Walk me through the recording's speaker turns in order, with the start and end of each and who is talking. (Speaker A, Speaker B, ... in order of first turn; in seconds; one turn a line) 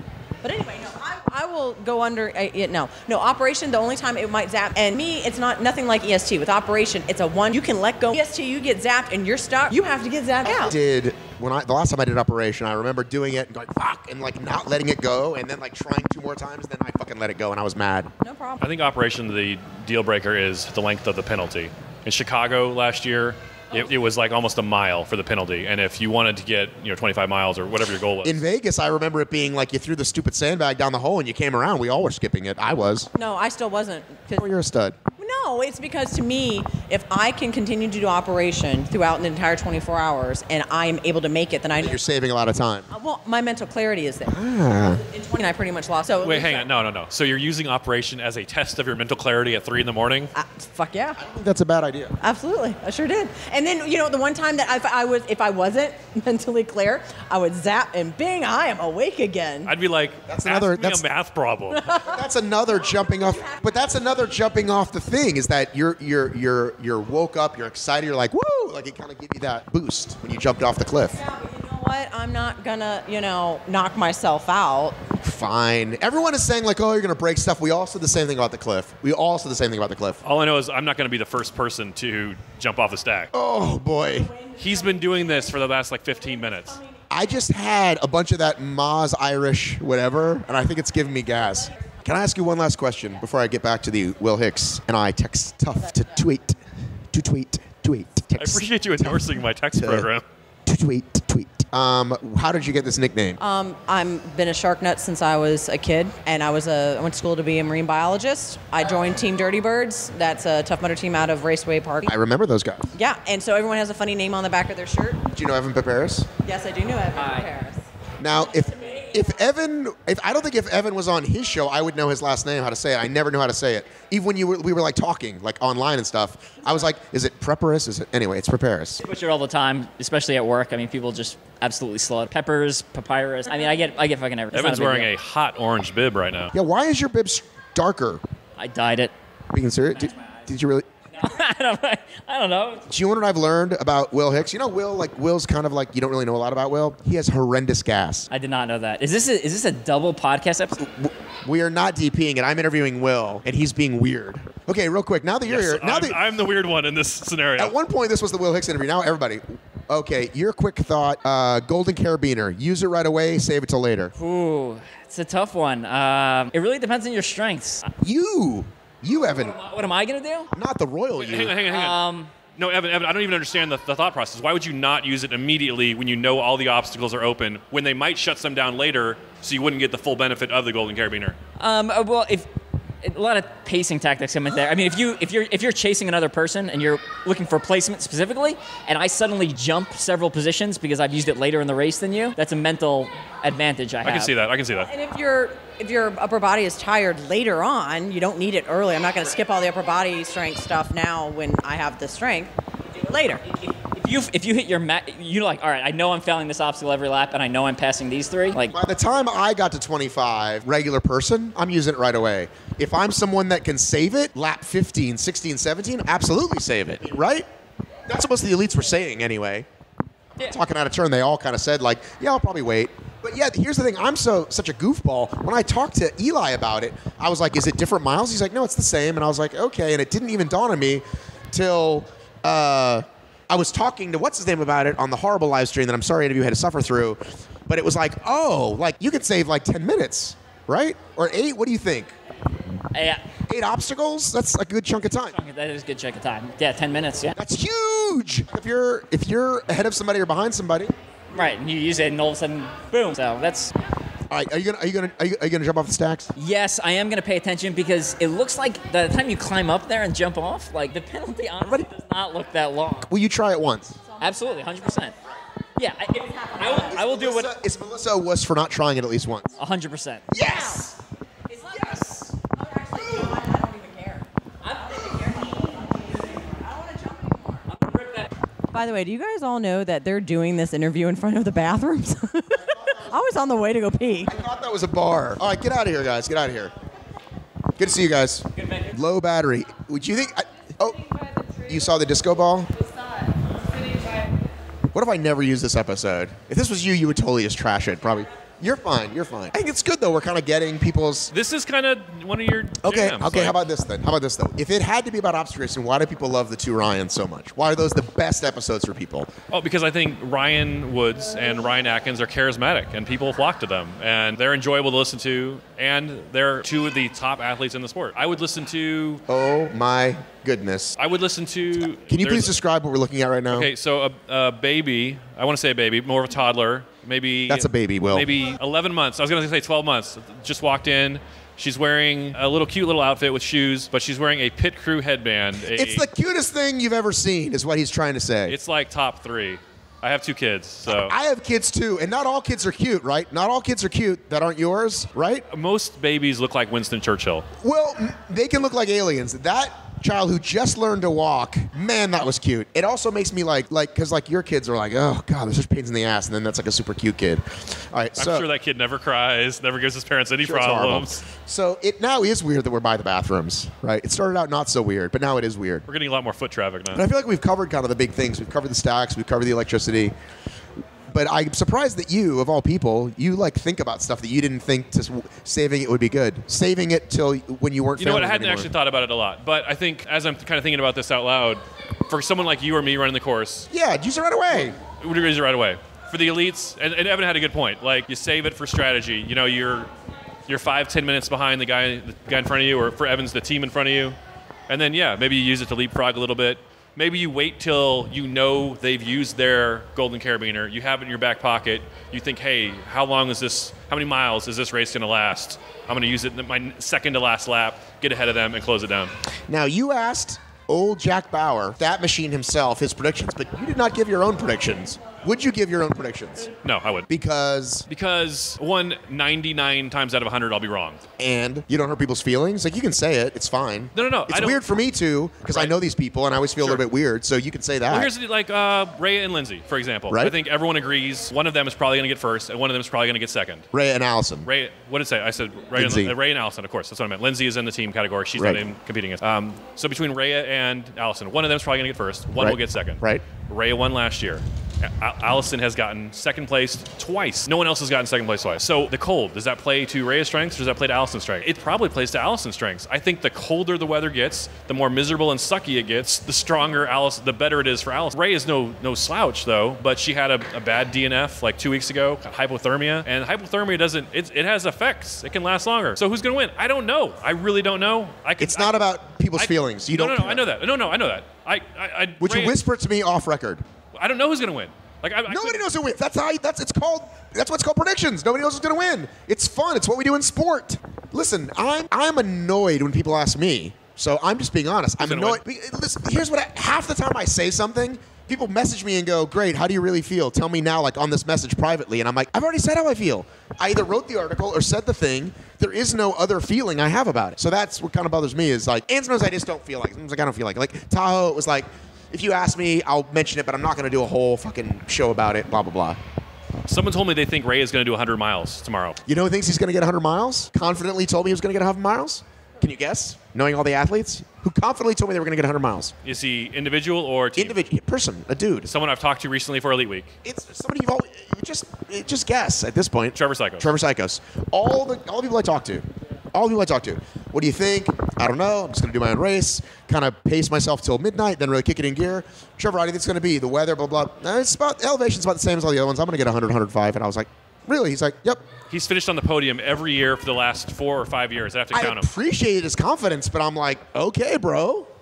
Speaker A: 0.4-10.7
Speaker B: 10.4-18.1
Speaker A: 18.2-18.6
Speaker C: 18.6-28.4
Speaker B: 28.2-33.1
Speaker A: 33.1-34.5
Speaker B: 34.3-35.0
Speaker A: 35.2-42.0
Speaker B: 41.8-42.9
Speaker A: 42.9-44.4
Speaker B: 44.3-45.0
Speaker A: 44.9-46.7
Speaker C: 46.2-50.3
Speaker A: 50.3-51.2
Speaker B: 51.2-52.1
Speaker A: 52.2-59.7
Speaker C: 59.6-61.8
Speaker B: 60.3-61.1
Speaker A: 61.8-62.1
Speaker B: 62.0-71.2
Speaker A: 62.8-64.2
Speaker A: 71.1-75.0
Speaker B: 75.2-80.2
Speaker C: 80.2-83.3
Speaker B: 83.3-84.3
Speaker A: 84.3-85.5
Speaker C: 84.6-86.8
Speaker B: 87.1-96.6
Speaker B: 97.1-100.1
Speaker C: 98.4-100.2
Speaker B: 100.7-103.4
Speaker A: 103.4-112.1
Speaker B: 112.0-112.8
Speaker A: 112.9-115.2
Speaker B: 115.3-116.3
Speaker A: 116.4-117.8
Speaker D: 117.1-117.5
Speaker B: 118.2-129.0
Speaker D: 129.0-135.1
Speaker C: 134.5-136.5
Speaker B: 136.5-138.2
Speaker D: 138.6-139.1
Speaker B: 139.5-140.8
Speaker D: 141.1-142.8
Speaker B: 142.9-148.3
Speaker D: 148.3-150.8
Speaker B: 150.8-156.2
Speaker C: 155.4-157.7
Speaker B: 157.6-164.1
Speaker D: 164.2-167.9
Speaker B: 168.0-169.6
Speaker D: 169.3-170.5
Speaker B: 170.5-171.6
Speaker C: 171.2-172.0
Speaker D: 171.6-172.3
Speaker C: 172.5-181.4
Speaker D: 181.6-182.5
Speaker D: 183.0-194.3
Speaker C: 194.0-194.9
Speaker A: 194.9-202.5
Speaker A: 203.0-203.4
Speaker D: 203.8-208.8
Speaker B: 208.7-217.5
Speaker B: 218.1-219.7
Speaker B: 220.4-242.1
Speaker D: 242.9-243.3
Speaker B: 243.4-245.4
Speaker D: 245.3-247.3
Speaker B: 247.3-250.9
Speaker D: 251.3-253.7
Speaker B: 254.3-256.3
Speaker D: 256.4-263.1
Speaker B: 261.6-261.9
Speaker B: 263.0-264.0
Speaker A: 264.1-265.1
Speaker D: 264.2-265.1
Speaker D: 265.8-267.5
Speaker A: 266.2-266.9
Speaker B: 266.9-269.5
Speaker D: 269.6-270.4
Speaker B: 270.3-270.9
Speaker A: 270.4-270.9
Speaker A: 271.5-274.2
Speaker B: 271.7-272.3
Speaker D: 274.6-275.5
Speaker A: 274.8-277.6
Speaker D: 277.7-278.3
Speaker A: 278.7-284.3
Speaker B: 282.6-283.2
Speaker B: 284.2-286.7
Speaker B: 287.8-291.0
Speaker D: 288.6-288.9
Speaker B: 291.6-292.7
Speaker D: 292.8-293.1
Speaker D: 293.7-294.2
Speaker B: 294.9-301.3
Speaker C: 301.3-303.6
Speaker B: 302.8-309.3
Speaker C: 309.5-319.2
Speaker B: 319.3-320.9
Speaker C: 321.0-322.5
Speaker B: 322.1-323.7
Speaker C: 323.5-336.1
Speaker B: 327.5-328.3
Speaker B: 335.7-338.6
Speaker C: 338.4-341.1
Speaker B: 340.9-345.4
Speaker C: 345.5-347.4
Speaker B: 347.6-358.4
Speaker C: 358.2-361.2
Speaker B: 360.4-365.8
Speaker C: 365.9-367.0
Speaker B: 366.9-370.1
Speaker B: 371.1-378.7
Speaker C: 378.0-383.7
Speaker B: 383.7-384.8
Speaker C: 384.5-389.9
Speaker C: 390.4-394.2
Speaker C: 394.7-409.1
Speaker B: 409.5-416.5
Speaker C: 416.6-417.1
Speaker B: 417.1-417.9
Speaker C: 417.9-421.0
Speaker B: 421.2-428.1
Speaker C: 423.9-424.6
Speaker C: 425.5-425.7
Speaker C: 427.9-433.7
Speaker B: 433.7-434.5
Speaker C: 434.4-468.8
Speaker B: 435.8-436.1
Speaker B: 438.4-438.6
Speaker B: 442.4-443.2
Speaker B: 468.4-470.4
Speaker C: 469.4-472.6
Speaker B: 472.2-473.6
Speaker C: 473.9-475.6
Speaker B: 475.3-506.0
Speaker C: 485.0-485.4
Speaker C: 506.7-509.0
Speaker B: 509.1-515.9
Speaker C: 516.0-517.6
Speaker B: 517.4-518.7
Speaker C: 518.6-520.1
Speaker B: 520.2-538.4
Speaker C: 523.1-523.7
Speaker C: 538.7-542.1
Speaker B: 541.7-544.9